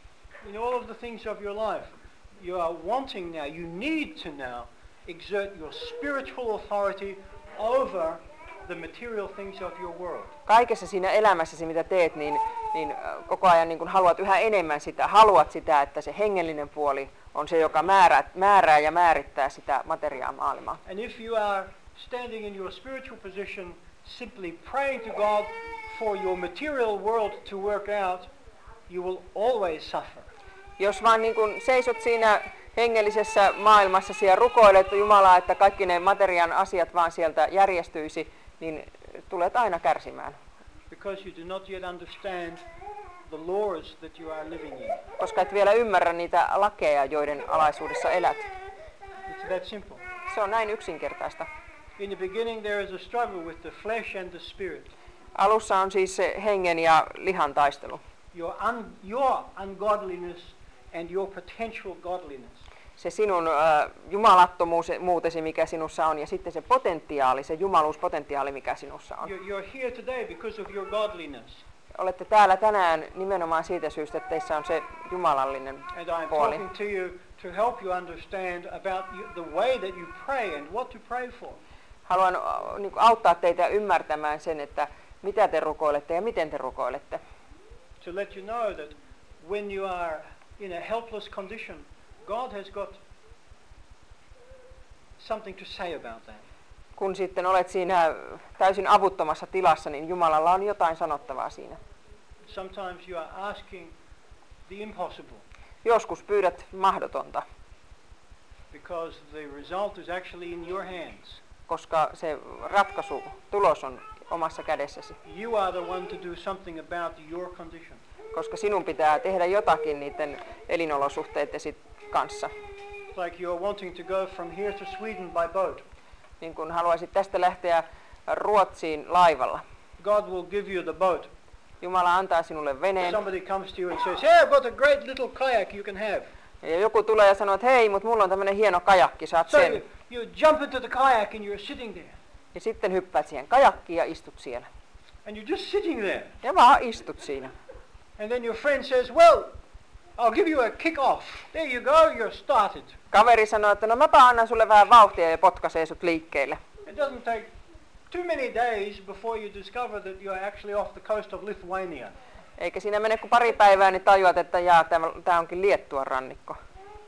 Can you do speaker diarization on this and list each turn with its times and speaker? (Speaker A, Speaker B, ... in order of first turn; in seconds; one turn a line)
Speaker A: 0.4-10.3
Speaker B: 10.5-20.8
Speaker A: 20.9-28.3
Speaker A: 28.9-30.3
Speaker B: 30.8-40.4
Speaker A: 40.9-42.6
Speaker A: 43.3-45.0
Speaker B: 45.2-48.5
Speaker A: 49.3-50.0
Speaker B: 50.3-51.5
Speaker A: 52.0-54.9
Speaker B: 55.4-58.0
Speaker A: 58.3-62.6
Speaker B: 63.0-69.3
Speaker A: 69.2-71.6
Speaker B: 72.0-76.6
Speaker A: 75.9-81.6
Speaker B: 82.1-87.2
Speaker A: 88.0-93.0
Speaker A: 95.2-96.5
Speaker B: 97.0-101.8
Speaker A: 102.5-104.0
Speaker A: 104.7-105.4
Speaker B: 105.8-107.5
Speaker A: 108.7-111.4
Speaker B: 111.7-115.2
Speaker A: 115.2-118.0
Speaker B: 118.3-122.5
Speaker A: 123.1-125.8
Speaker B: 126.4-129.6
Speaker A: 130.0-131.3
Speaker B: 131.8-133.2
Speaker A: 133.0-136.3
Speaker B: 136.6-139.8
Speaker A: 139.5-142.2
Speaker B: 142.5-144.7
Speaker A: 145.2-146.4
Speaker B: 146.4-147.5
Speaker A: 148.2-149.6
Speaker A: 150.2-153.0
Speaker B: 153.1-156.6
Speaker A: 156.8-157.5
Speaker A: 158.1-162.2
Speaker B: 162.6-166.6